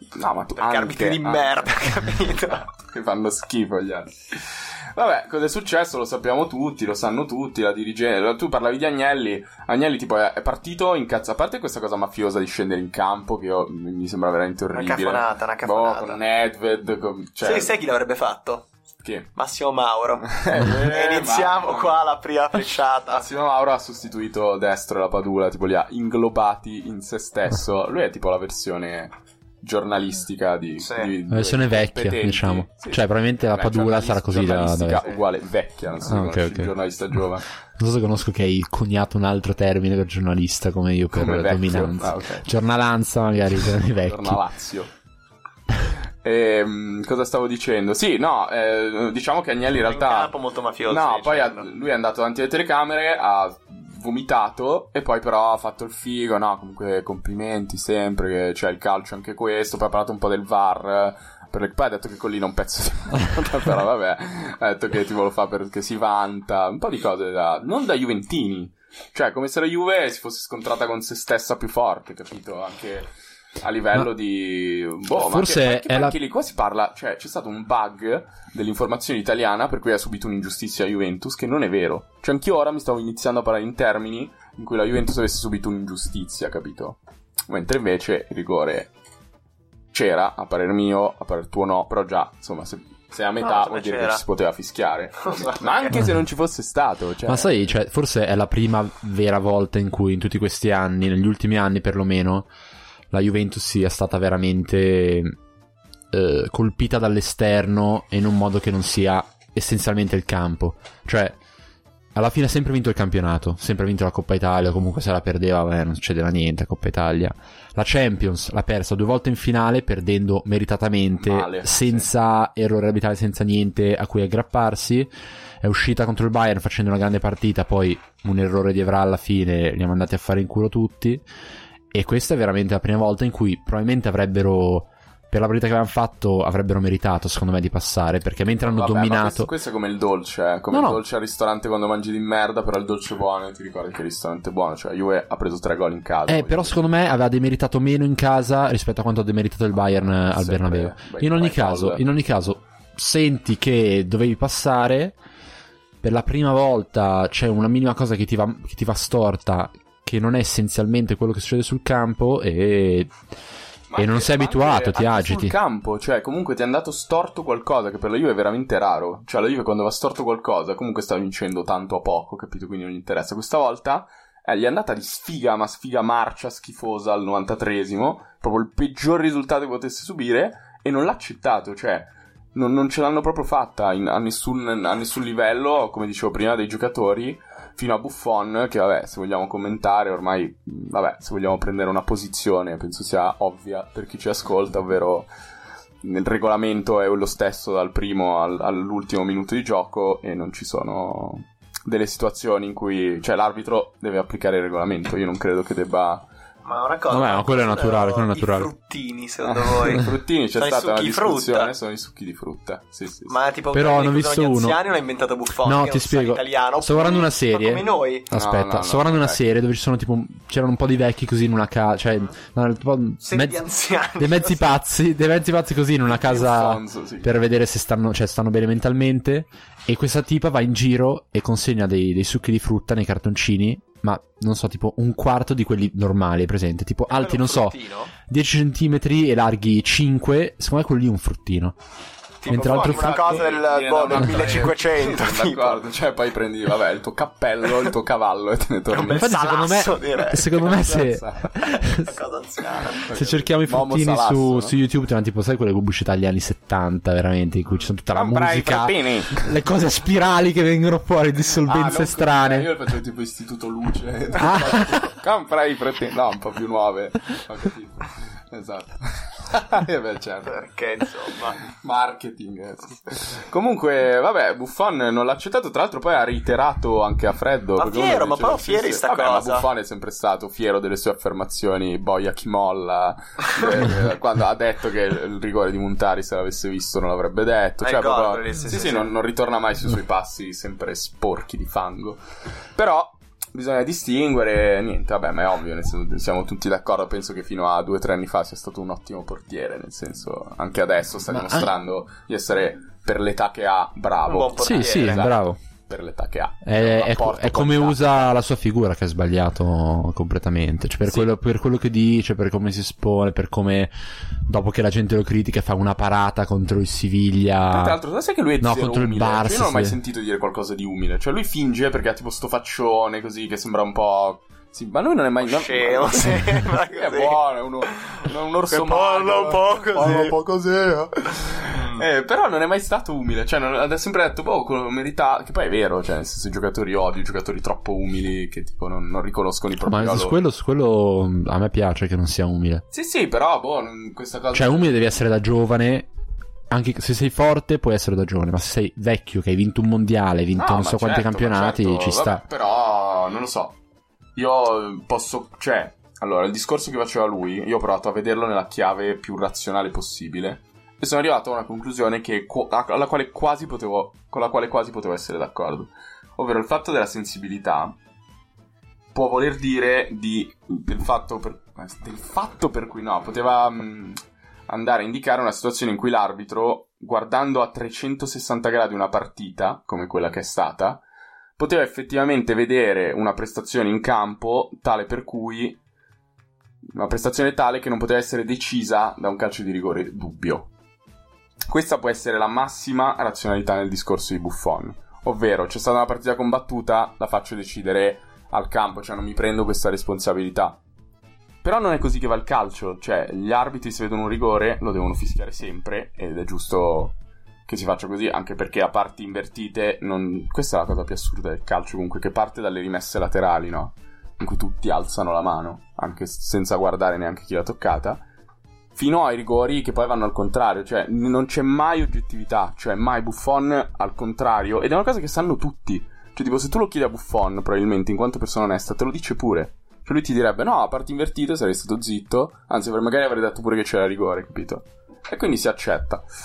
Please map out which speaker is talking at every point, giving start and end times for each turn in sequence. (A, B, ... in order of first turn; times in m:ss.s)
0:00.1-0:01.6 A
0:00.6-0:02.7 B
0:02.7-0:17.8 A
0:14.7-0:16.2 B
0:17.4-0:18.7 B
0:19.0-0:19.3 A
0:19.4-0:23.3 B
0:20.2-0:22.0 A
0:23.1-0:37.5 A
0:30.8-0:31.1 B
0:31.3-0:35.1 C
0:36.0-0:36.7 C
0:37.8-0:44.4 C
0:41.1-0:42.5 A
0:43.8-0:44.9 A
0:46.2-0:50.3 A
0:49.8-0:51.7 B
0:50.9-1:28.9 A
1:15.1-1:16.2 C
1:29.9-1:37.7 A
1:33.4-1:34.2 B
1:35.3-1:36.0 B
1:37.3-1:42.5 C
1:43.1-1:45.4 C
1:46.1-1:51.4 C
1:52.2-2:05.1 C
2:01.2-2:02.1 A
2:05.6-2:11.2 C
2:11.9-2:19.5 C
2:18.5-2:26.8 A
2:20.7-2:21.0 C
2:26.3-2:35.2 C
2:30.1-2:32.0 A
2:36.0-2:43.1 C
2:43.9-3:15.3 A
2:44.0-2:45.6 C
3:16.0-3:26.3 A
3:26.6-3:31.7 B
3:27.1-3:28.7 C
3:29.4-3:33.4 A
3:33.3-3:38.3 B
3:33.7-3:34.8 C
3:35.6-3:43.6 C
3:38.3-3:39.4 A
3:43.2-3:44.8 B
3:44.2-4:01.8 C
3:46.1-3:47.3 A
3:57.1-3:58.1 B
4:02.4-4:05.8 B
4:02.5-4:09.3 A
4:02.5-4:03.4 C
4:08.9-4:10.7 B
4:09.1-4:12.2 C
4:10.6-4:11.6 A
4:11.6-4:13.0 B
4:12.9-4:14.8 A
4:13.1-4:22.7 C
4:18.1-4:19.6 A
4:21.6-4:30.6 A
4:24.4-4:25.0 C
4:30.4-4:31.6 B
4:31.6-4:52.2 A
4:37.8-4:39.7 B
4:47.8-4:49.1 B
4:52.8-5:08.2 A
5:01.3-5:01.7 C
5:04.3-5:05.3 B
5:04.6-5:05.6 C
5:06.6-5:18.0 C
5:11.0-5:11.3 A
5:17.7-5:40.4 A
5:18.6-5:20.0 C
5:25.4-5:30.4 B
5:31.7-5:32.0 B
5:39.8-5:42.8 C
5:42.9-5:45.2 A
5:44.5-5:46.1 C
5:46.7-5:52.4 C
5:50.6-5:53.8 A
5:54.4-6:08.0 A
6:09.1-6:21.0 A
6:21.6-6:25.8 A
6:26.9-6:30.7 A
6:31.7-6:40.8 A
6:41.6-6:58.2 A
6:59.0-7:16.3 A